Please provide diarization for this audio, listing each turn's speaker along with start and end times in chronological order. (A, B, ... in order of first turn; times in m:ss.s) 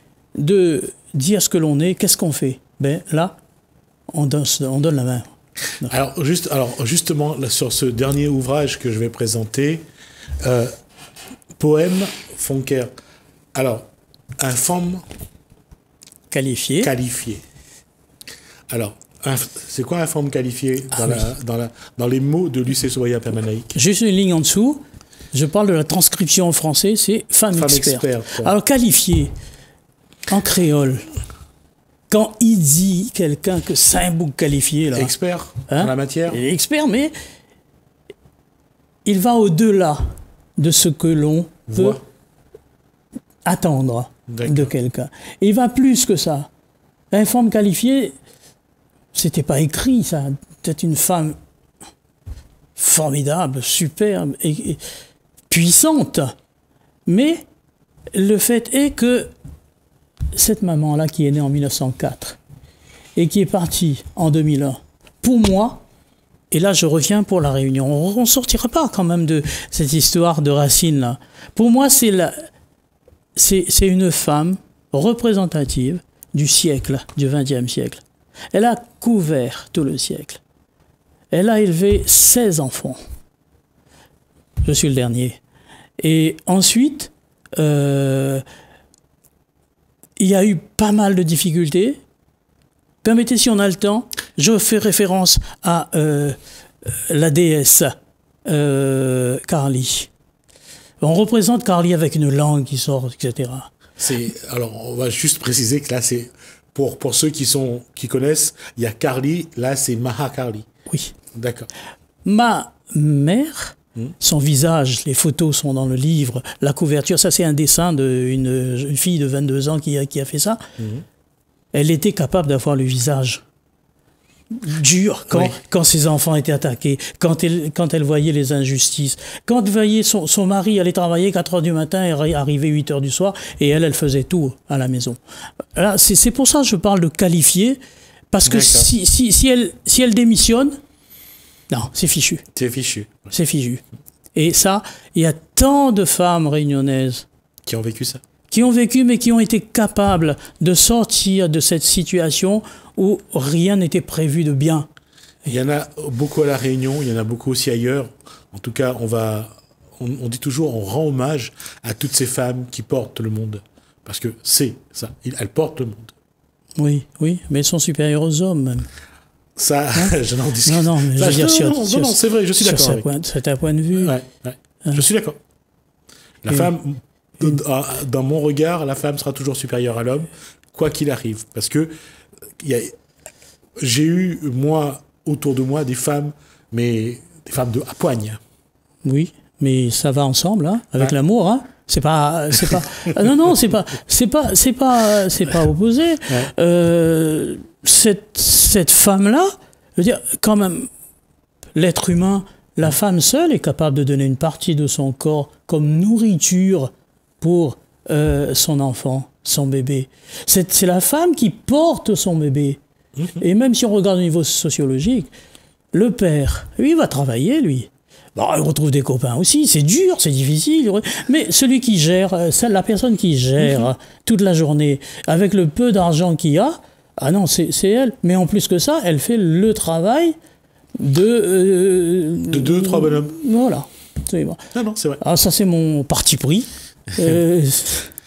0:00.4-0:03.4 A
0:04.1-0:05.9 A
0:05.8-0:09.8 B
0:10.4-0:10.7 B
0:11.6-0:12.9 B
0:13.5-0:13.9 B
0:14.4-0:15.0 B
0:16.3-0:16.9 A
0:16.8-0:17.4 B
0:18.7-0:23.7 B
0:20.9-0:21.2 A
0:23.7-0:29.3 A
0:27.5-0:28.5 B
0:30.3-0:31.1 A
0:32.1-0:35.1 A
0:34.9-0:36.4 B
0:35.7-0:37.1 A
0:39.0-0:42.0 A
0:41.7-0:42.0 B
0:43.5-0:46.5 A
0:44.3-0:44.7 B
0:47.1-0:48.1 A
0:49.1-0:51.4 A
0:52.8-0:54.8 A
0:55.5-0:56.3 A
0:57.1-0:57.4 A
0:58.1-0:59.3 A
1:00.4-1:02.4 A
1:03.2-1:05.8 A
1:06.5-1:12.4 A
1:13.4-1:18.0 A
1:18.5-1:20.4 A
1:21.3-1:23.0 A
1:24.6-1:25.4 A
1:26.0-1:28.4 A
1:30.2-1:32.0 A
1:33.0-1:40.1 A
1:41.0-1:43.7 A
1:44.0-1:50.7 B
1:50.9-1:51.2 A
1:51.3-1:51.7 B
1:52.2-2:00.6 A
2:00.8-2:01.0 B
2:01.7-2:03.4 A
2:04.5-2:15.2 A
2:05.3-2:05.6 B
2:15.8-2:17.8 A
2:18.3-2:20.8 A
2:18.4-2:18.9 B
2:21.7-2:22.4 A
2:22.5-2:23.3 B
2:23.3-2:23.8 A
2:24.3-2:27.3 A
2:27.7-2:28.2 B
2:28.5-2:34.9 A
2:35.5-2:46.1 B
2:46.8-2:48.9 A
2:49.6-2:53.1 B
2:50.6-2:54.1 A
2:54.0-2:55.4 B
2:56.4-3:01.9 B
3:02.6-3:02.9 B
3:03.8-3:08.4 B
3:09.0-3:20.9 A
3:21.8-3:32.8 A
3:33.2-3:33.4 B
3:33.4-3:35.3 A
3:35.9-3:50.4 A
3:51.0-3:54.6 A
3:52.5-3:53.4 B
3:54.7-3:55.2 B
3:55.2-3:58.1 A